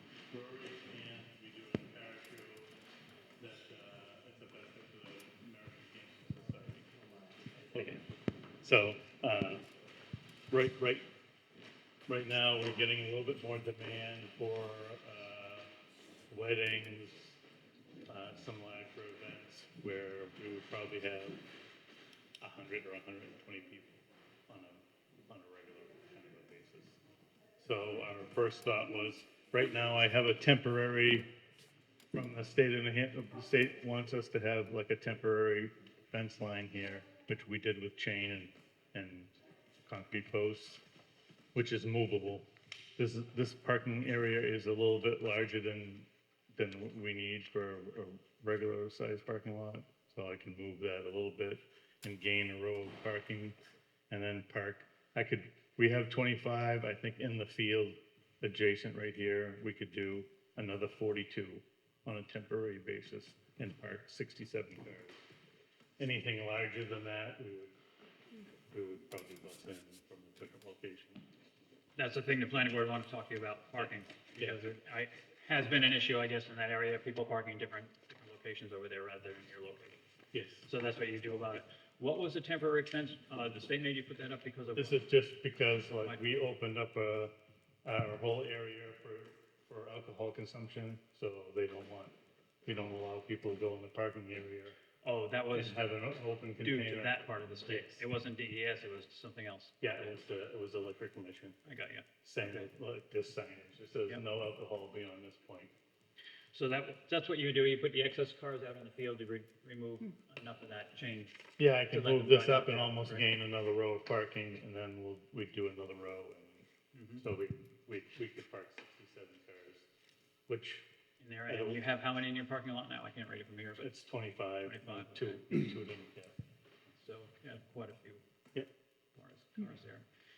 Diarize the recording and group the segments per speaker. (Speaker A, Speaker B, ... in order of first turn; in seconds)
Speaker A: 0.3-2.7, 3.4-6.9, 7.7-8.0, 8.6-9.6, 10.5-11.1, 12.1-15.7, 16.3-17.4, 18.1-21.4, 22.4-27.0, 27.6-31.3, 32.1-40.8, 41.5-53.6, 54.1-65.2, 66.0-67.8, 68.7-71.2, 73.8-74.6, 80.3-80.7, 84.7-87.3, 87.8-92.1, 92.6-94.8, 95.5-98.0, 99.8-101.6, 102.2-105.7, 111.6-119.9, 120.5-120.8, 121.5-121.8, 123.8-126.4
Speaker B: 72.0-80.0, 80.6-85.1, 95.0-95.8, 96.6-100.2, 101.6-102.7, 106.5-113.2, 116.9-117.2, 121.2-123.9, 124.6-125.5, 127.0-128.2, 129.2-130.1